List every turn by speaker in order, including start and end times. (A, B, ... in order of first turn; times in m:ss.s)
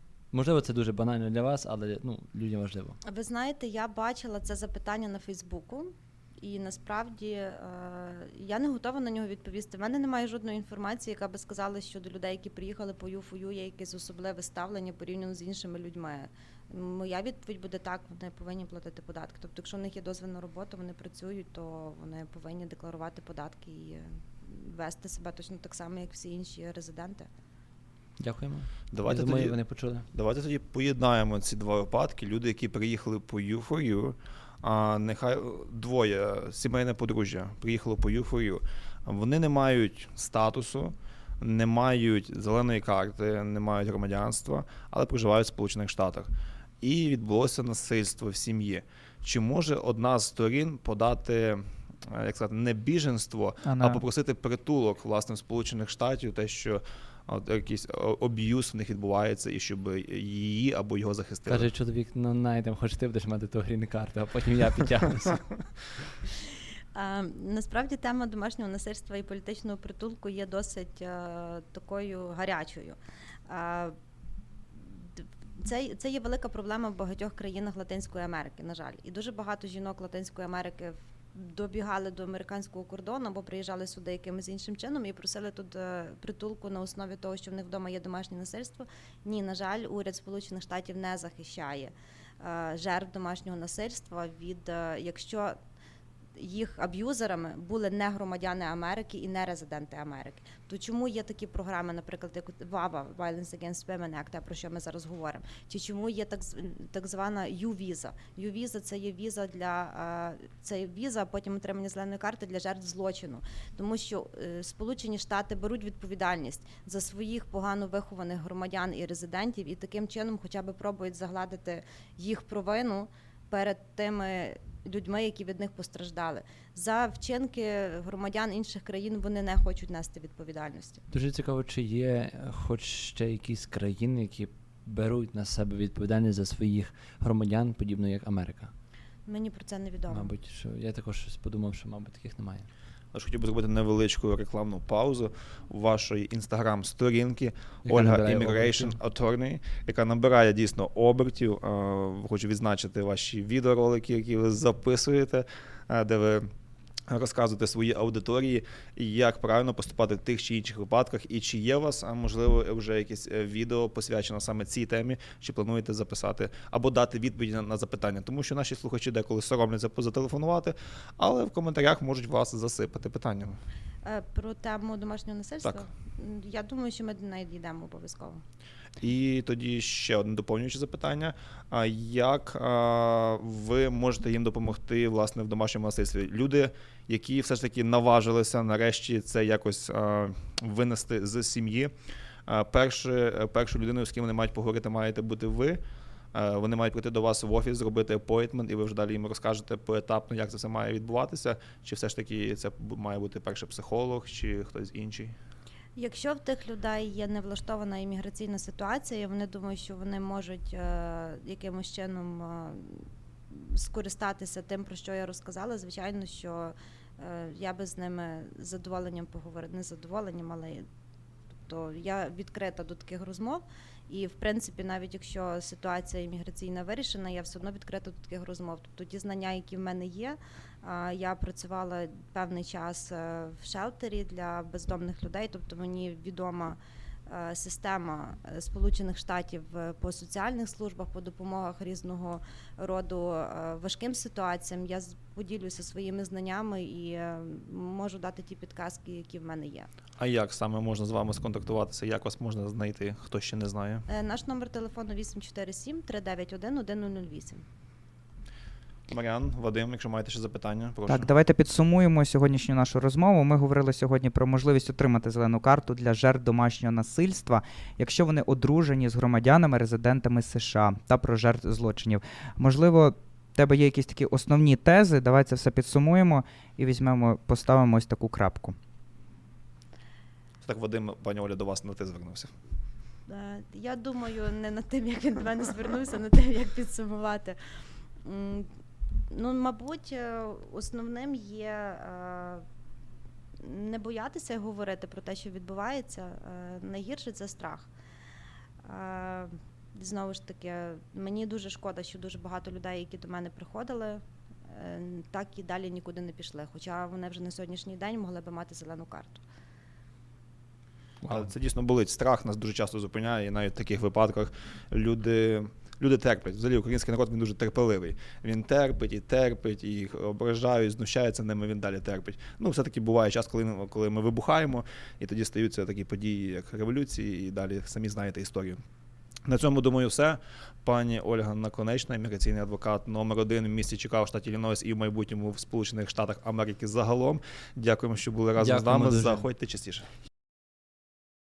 0:00.3-0:03.0 A
0:03.0-0:27.3 B
0:28.2-0:30.1 A
0:28.9-0:29.6 C
0:30.1-1:01.7 C
0:53.6-0:54.0 D
1:01.5-1:05.4 A
1:06.9-1:13.0 B
1:13.5-1:14.0 B
1:14.8-1:35.6 B
1:36.4-2:11.0 B
2:11.1-2:18.7 A
2:19.3-2:20.3 B
2:20.1-2:22.7 A
2:23.1-2:36.5 C
2:27.8-2:28.9 A
2:37.1-2:53.6 C
2:54.0-2:58.4 B
2:59.0-3:11.9 C
3:12.5-3:15.8 C
3:16.3-3:25.4 C
3:26.0-3:40.9 B
3:41.6-4:09.9 B
4:10.2-4:14.0 C
4:14.1-4:17.6 B
4:19.1-4:21.3 C
4:21.1-4:38.8 D
4:40.6-4:42.5 C
4:43.3-4:47.6 B
4:48.2-4:48.7 B
4:49.3-4:52.6 B
4:53.6-4:57.9 B
4:58.8-5:09.4 B
5:11.3-5:28.8 C
5:29.4-5:40.1 C
5:38.6-5:39.5 A